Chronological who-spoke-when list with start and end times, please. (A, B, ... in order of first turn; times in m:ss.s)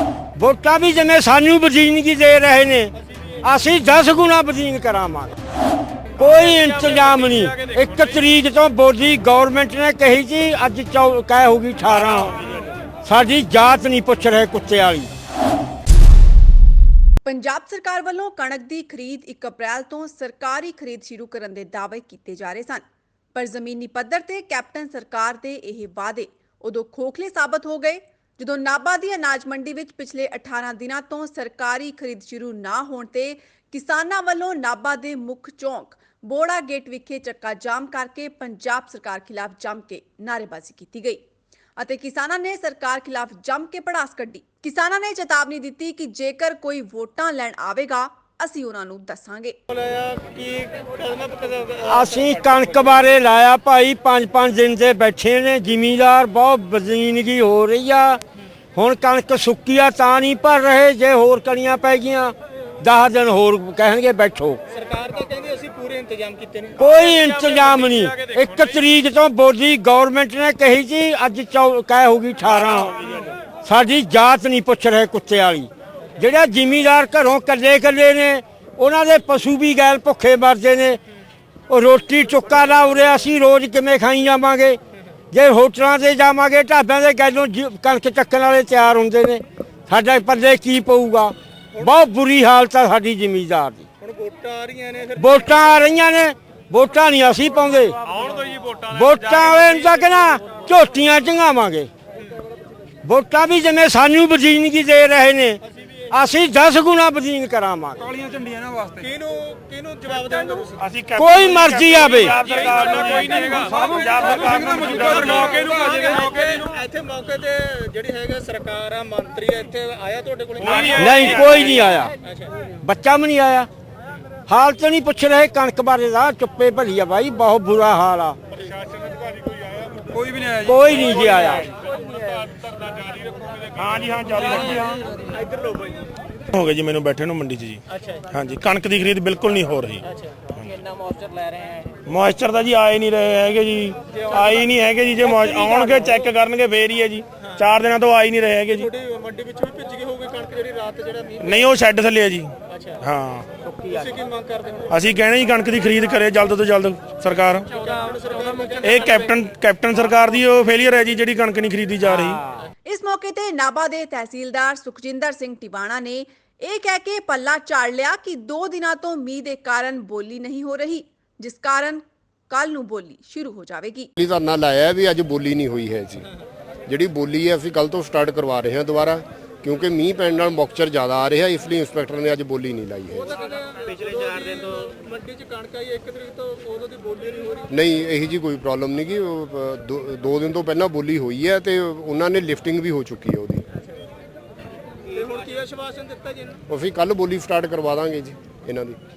0:00.4-0:05.4 A
0:06.2-0:12.4 A
0:13.0-0:15.1 A
0:17.2-0:22.8 B
0:23.4-0:41.2 B
0:41.8-0:49.6 B
0:49.8-0:52.2 C
0:51.8-0:58.2 A
0:58.8-1:04.6 A
1:04.7-1:07.0 C
1:06.8-1:12.9 A
1:12.6-1:13.3 D
1:13.6-1:21.0 A
1:21.7-1:24.8 A
1:25.3-1:33.9 A
1:34.0-1:35.3 C
1:35.2-1:38.0 A
1:38.9-1:41.9 A
1:43.0-1:45.6 A
1:46.1-1:48.3 A
1:49.0-1:50.8 C
1:50.8-1:55.7 D
1:51.2-1:52.4 A
1:53.5-1:53.8 C
1:55.4-2:01.3 C
2:00.6-2:01.7 D
2:00.9-2:02.1 A
2:02.8-2:03.7 A
2:04.5-2:08.4 A
2:10.5-2:11.7 A
2:11.7-2:12.7 C
2:13.8-2:15.1 D
2:15.2-2:15.9 C
2:16.5-2:20.0 D
2:21.0-2:21.9 C
2:22.1-2:28.9 D
2:28.9-2:31.4 C
2:31.4-2:33.5 D
2:33.9-2:34.9 C
2:34.9-2:37.7 D
2:37.8-2:39.0 C
2:38.8-2:42.4 D
2:42.9-2:54.1 B
2:54.2-2:56.3 E
2:56.9-3:03.4 E
3:03.4-3:07.7 C
3:07.7-3:13.6 E
3:15.1-3:16.6 C
3:16.7-3:19.0 E